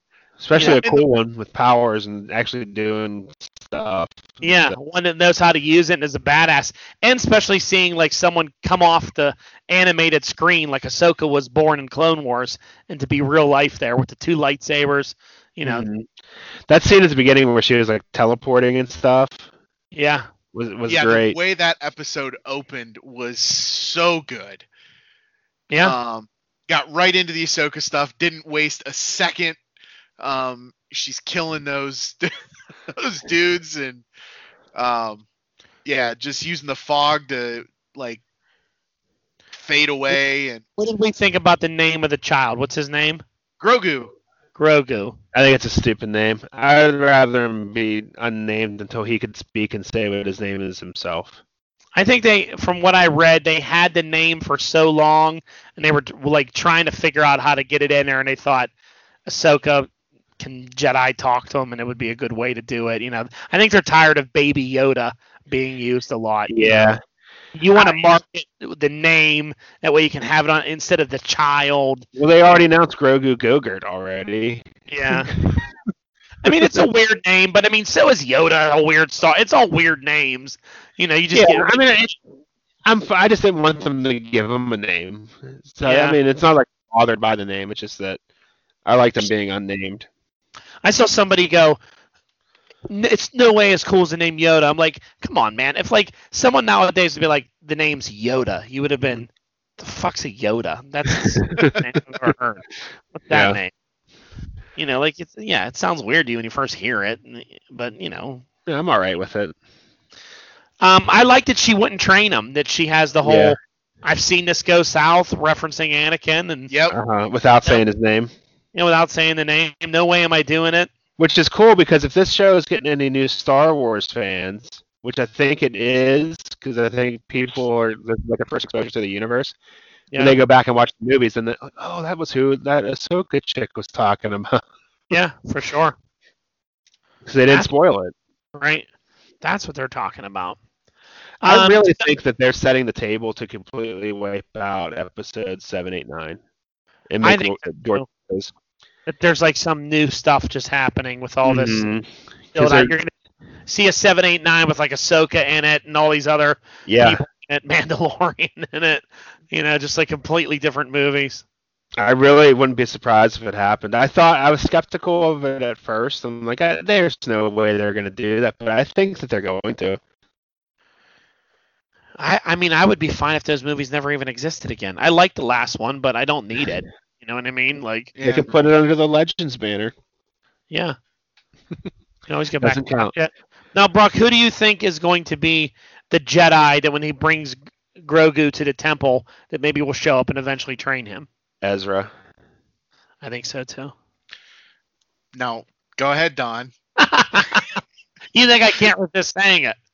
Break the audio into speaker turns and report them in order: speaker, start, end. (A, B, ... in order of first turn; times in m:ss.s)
0:00.4-0:04.8 A
0:00.5-0:00.8 B
0:00.6-0:01.0 C
0:04.4-0:15.9 B
0:15.6-0:16.1 A
0:16.7-0:19.5 A
0:19.9-0:20.3 B
0:20.5-0:21.4 A
0:20.9-0:24.6 C
0:25.7-0:25.9 B
0:25.8-0:29.6 C
0:30.2-0:32.3 C
0:32.9-0:34.0 C
0:34.7-0:35.2 C
0:35.8-0:38.2 C
0:39.5-0:40.6 C
0:40.8-0:43.2 B
0:43.6-0:44.1 C
0:44.6-0:45.2 B
0:45.3-0:51.4 A
0:52.0-0:58.7 B
0:59.2-1:07.0 B
1:06.5-1:07.0 A
1:07.5-1:12.0 B
1:07.7-1:08.1 A
1:12.2-1:15.7 A
1:14.9-1:15.3 B
1:16.4-1:21.9 B
1:16.4-1:16.7 A
1:21.3-1:22.2 A
1:22.8-1:28.2 A
1:25.8-1:26.2 B
1:28.8-1:30.1 A
1:30.8-1:31.8 B
1:32.9-1:43.7 B
1:43.3-1:43.6 A
1:44.8-1:48.4 B
1:48.6-1:49.5 A
1:50.8-1:56.7 B
1:53.2-1:53.6 A
1:56.7-1:57.0 C
1:56.9-1:58.3 A
1:58.7-2:00.9 B
2:01.2-2:09.6 A
2:10.1-2:10.4 B
2:10.2-2:14.6 A
2:15.1-2:16.0 B
2:17.2-2:18.1 A
2:18.5-2:18.8 B
2:19.4-2:20.6 B
2:21.4-2:22.1 B
2:21.4-2:26.4 A
2:27.1-2:28.5 A
2:27.2-2:28.1 B
2:29.1-2:31.9 B
2:31.4-2:32.9 A
2:32.5-2:33.1 B
2:33.7-2:41.4 B
2:36.8-2:37.2 A
2:42.0-2:50.0 A
2:52.2-2:58.1 B
2:58.1-2:58.5 C
2:58.2-2:59.9 A
3:00.7-3:01.0 B
3:02.3-3:11.3 B
3:02.6-3:03.1 A
3:11.6-3:12.1 A
3:13.2-3:13.9 B
3:15.3-3:16.7 C
3:17.0-3:17.7 B
3:18.3-3:19.8 B